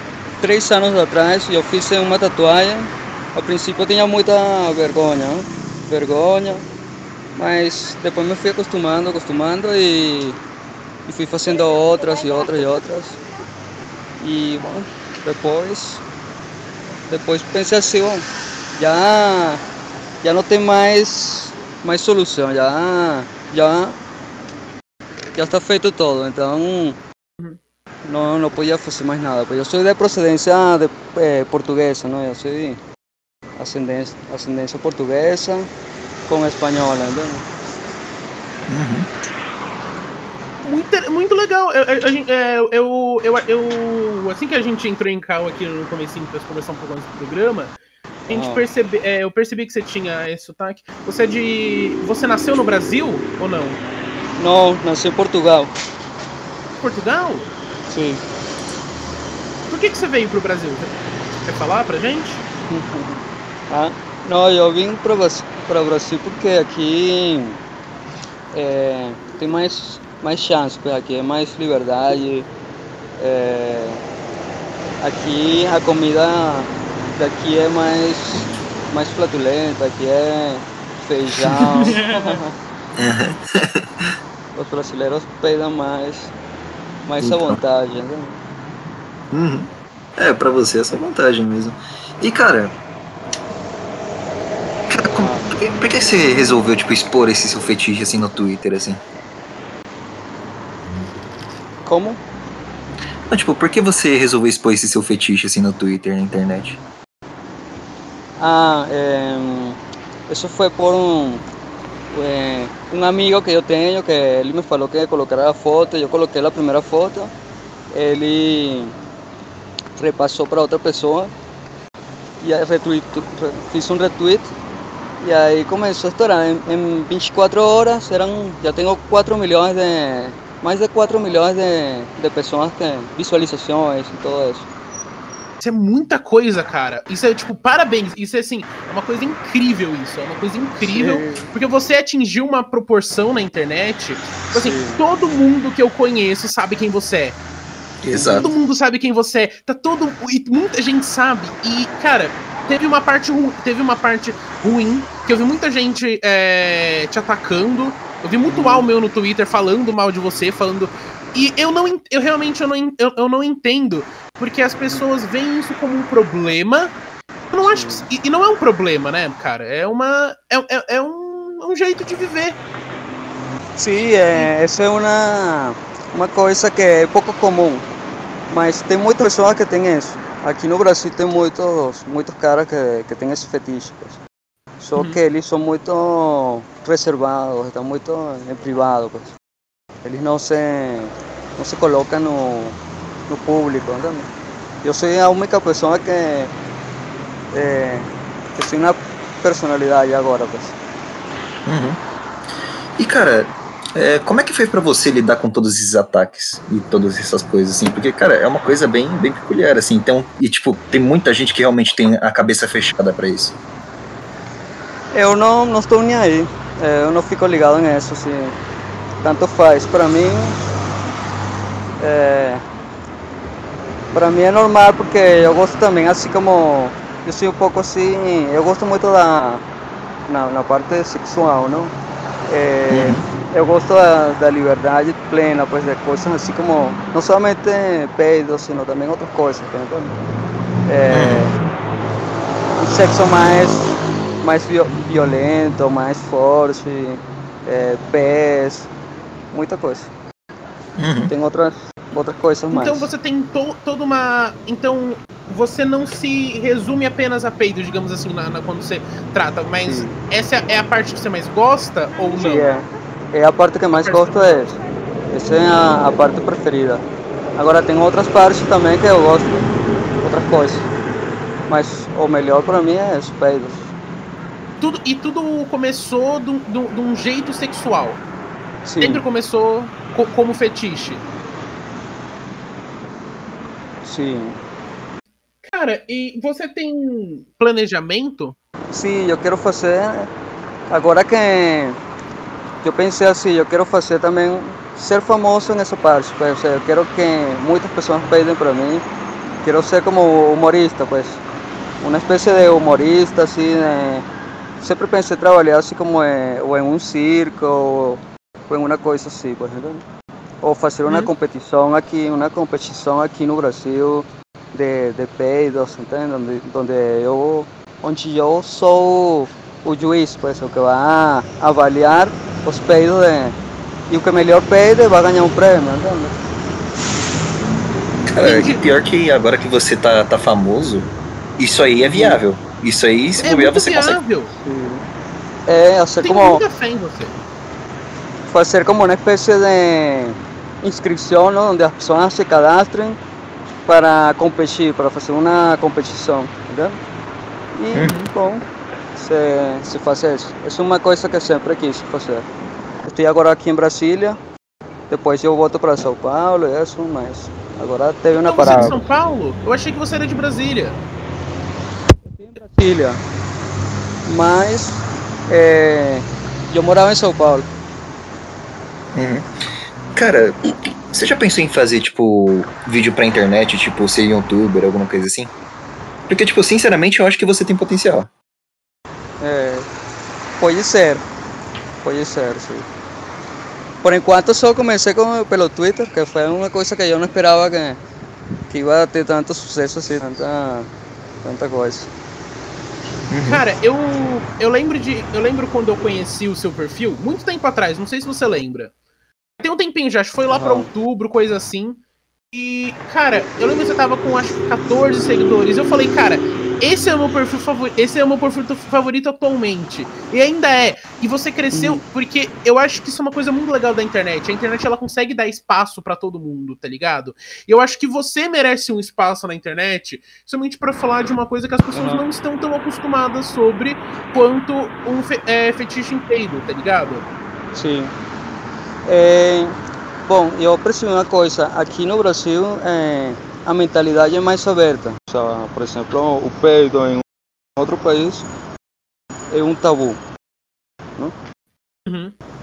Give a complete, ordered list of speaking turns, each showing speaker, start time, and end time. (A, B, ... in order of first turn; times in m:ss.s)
0:00.4-0:06.7 A
0:07.3-0:10.4 A
0:11.1-0:13.2 A
0:14.2-0:16.0 A
0:17.1-0:19.6 A
0:20.2-0:24.0 A
0:25.3-0:27.0 A
0:28.0-0:32.8 A
0:33.6-0:35.7 A
0:36.3-0:37.4 A
0:38.7-0:39.1 B
0:40.6-0:47.8 C
0:48.3-0:48.6 A
0:48.3-0:53.8 C
0:54.4-0:55.7 A
0:56.8-0:57.5 C
0:57.9-0:58.2 A
0:59.7-1:00.9 C
1:01.4-1:02.4 C
1:02.7-1:07.6 A
1:08.5-1:12.5 A
1:13.2-1:14.0 A
1:15.0-1:22.5 A
1:21.9-1:22.4 C
1:23.0-1:24.1 B
1:24.6-1:26.3 A
1:27.0-1:28.4 A
1:27.2-1:27.6 B
1:29.3-1:32.8 B
1:34.9-1:39.0 B
1:35.2-1:35.5 A
1:41.8-1:42.2 A
1:43.3-1:46.8 B
1:48.4-1:49.8 A
1:50.3-1:51.4 A
1:52.1-1:57.3 A
1:57.9-1:58.9 A
2:00.0-2:01.3 A
2:02.4-2:04.5 A
2:05.2-2:14.7 A
2:15.6-2:27.4 C
2:20.8-2:21.4 A
2:24.5-2:25.0 A
2:28.0-2:28.5 B
2:28.1-2:28.6 A
2:28.4-2:47.0 C
2:38.5-2:38.9 A
2:47.5-2:52.6 C
2:47.6-2:48.1 A
2:53.8-2:57.8 A
2:58.5-3:04.2 A
3:04.8-3:09.3 A
3:10.0-3:12.8 A
3:13.3-3:14.3 A
3:14.8-3:16.5 A
3:17.5-3:20.8 A
3:21.7-3:22.0 B
3:23.0-3:33.6 B
3:35.1-3:38.6 A
3:39.2-3:40.6 A
3:42.0-3:42.6 A
3:44.1-3:49.6 A
3:50.3-3:51.9 A
3:52.5-4:00.2 A
3:52.9-3:53.2 B
4:00.9-4:01.6 A
4:01.1-4:01.4 B
4:02.8-4:08.9 A
4:09.5-4:10.1 A
4:11.0-4:11.3 B
4:11.3-4:13.1 A
4:12.7-4:22.7 C
4:19.8-4:20.2 A
4:22.4-4:24.8 A
4:23.9-4:24.6 C
4:25.3-4:27.0 A
4:27.6-4:29.7 A
4:30.2-4:30.9 A
4:31.7-4:33.9 A
4:34.8-4:38.2 C
4:38.8-4:39.2 A
4:39.0-4:41.2 C
4:44.0-4:44.6 A
4:45.6-4:48.6 C
4:48.9-4:50.3 A
4:50.9-4:52.0 A
4:52.8-4:59.0 A
4:59.6-5:01.4 A
5:02.0-5:04.2 A
5:04.8-5:10.0 A
5:10.6-5:23.6 A
5:11.1-5:11.3 C
5:24.1-5:26.3 A
5:28.3-5:34.2 B
5:28.4-5:28.8 C
5:32.0-5:32.4 A
5:33.4-5:34.5 C
5:34.6-5:35.0 A
5:35.7-5:36.6 A
5:36.2-5:37.4 C
5:38.5-5:43.2 A
5:43.9-5:47.0 A
5:47.7-5:52.5 A
5:47.9-5:48.2 B
5:48.0-5:48.3 C
5:53.0-5:54.4 A
5:55.1-5:59.0 A
5:58.4-6:01.0 C
5:58.6-5:59.0 B
6:02.2-6:03.2 A
6:04.3-6:07.7 A
6:09.1-6:09.5 B
6:10.2-6:15.5 B
6:16.3-6:18.3 B
6:19.4-6:19.9 A
6:20.6-6:21.2 A
6:22.0-6:22.9 A
6:24.0-6:28.0 A
6:28.7-6:30.9 A
6:31.4-6:32.1 A
6:33.3-6:33.6 B
6:33.4-6:38.9 C
6:39.6-6:42.0 C
6:40.5-6:40.9 A
6:42.5-7:07.2 C
6:51.7-6:52.0 A
7:01.9-7:02.3 A
7:07.7-7:08.1 A
7:09.0-7:09.8 A
7:10.3-7:17.2 A
7:17.8-7:18.4 A
7:19.5-7:20.2 A
7:22.1-7:22.4 C